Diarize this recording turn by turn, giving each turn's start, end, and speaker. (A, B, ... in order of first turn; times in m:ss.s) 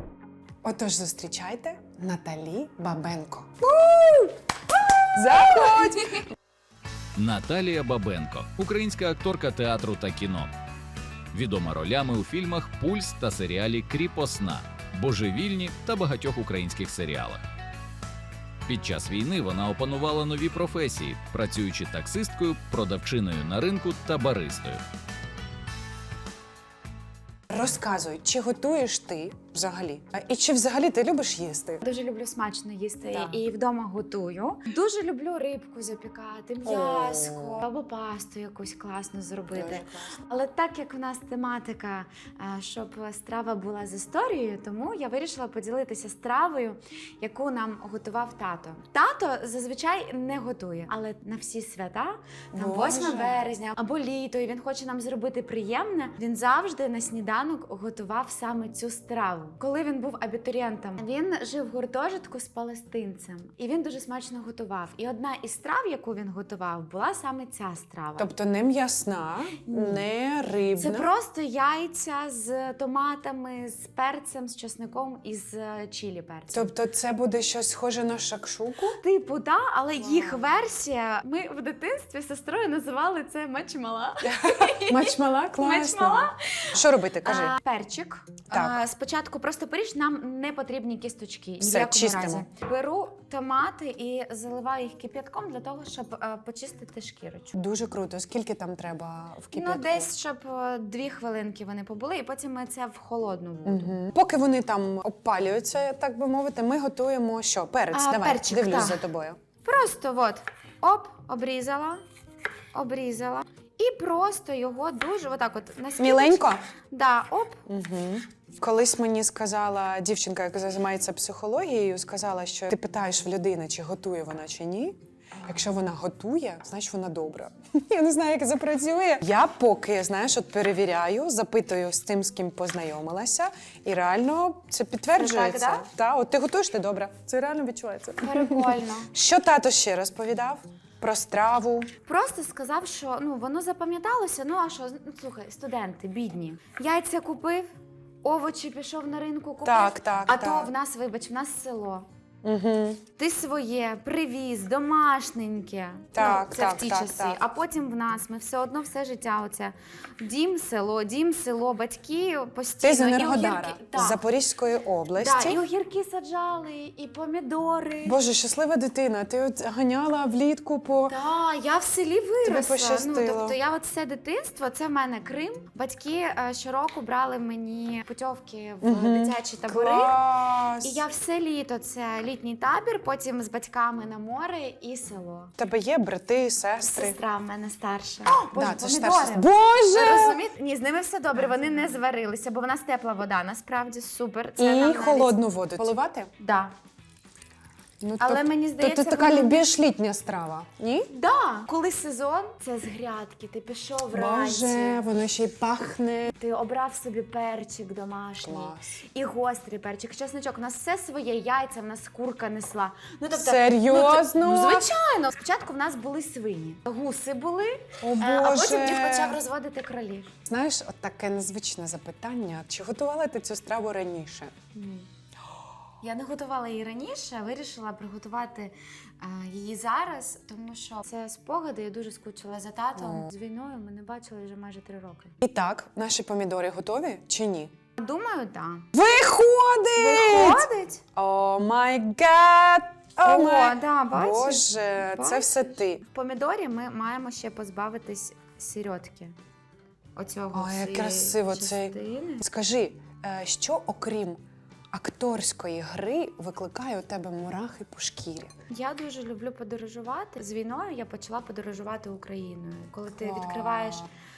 0:00.6-0:04.3 A
0:05.1-0:06.2 A
0:05.3-0:06.2 B
0:07.2-0:10.5 C
0:11.3-0:17.4 C
0:18.7-0:24.8 C
0:27.5-0:31.8 A
0:31.8-1:08.3 B
0:33.1-0:33.4 A
0:36.6-0:37.6 A
0:39.5-0:40.2 A
0:52.5-0:53.4 A
1:08.2-1:11.1 A
1:09.7-1:10.0 B
1:10.8-1:16.7 B
1:16.5-1:19.0 A
1:19.0-1:37.5 B
1:20.0-1:20.5 A
1:24.2-1:27.6 A
1:28.5-1:28.8 A
1:31.6-1:32.4 A
1:37.5-1:40.1 A
1:39.5-1:43.9 B
1:43.6-1:49.4 A
1:47.9-1:49.0 B
1:49.6-1:52.0 B
1:52.7-1:57.6 B
1:56.0-1:56.6 A
1:57.7-2:21.9 A
2:15.2-2:15.9 B
2:18.2-2:19.1 B
2:22.0-2:27.7 B
2:28.2-2:32.1 B
2:29.6-2:30.7 A
2:32.4-2:33.0 A
2:33.2-2:44.2 B
2:36.1-2:37.4 A
2:42.8-2:45.6 A
2:45.2-2:48.2 B
2:48.0-2:51.2 A
2:51.1-3:00.3 B
2:52.4-2:53.6 A
2:58.8-3:01.0 A
3:00.8-3:05.5 B
3:05.6-3:07.2 A
3:06.8-3:15.4 B
3:08.5-3:10.4 A
3:14.6-3:16.3 A
3:16.4-3:16.7 B
3:18.0-3:21.1 A
3:18.2-3:19.7 B
3:21.1-3:25.0 B
3:24.1-3:26.3 A
3:26.3-3:40.3 B
3:28.4-3:29.0 A
3:33.3-3:34.9 A
3:38.0-3:39.4 A
3:40.5-3:44.5 A
3:44.7-3:45.1 B
3:46.0-3:55.3 B
3:53.0-3:53.3 A
3:55.4-3:57.7 A
3:58.0-3:58.9 B
3:58.9-4:06.0 A
4:00.0-4:01.0 B
4:03.2-4:09.4 B
4:10.2-4:12.4 B
4:10.5-4:18.5 A
4:18.7-4:24.1 B
4:23.2-4:24.1 A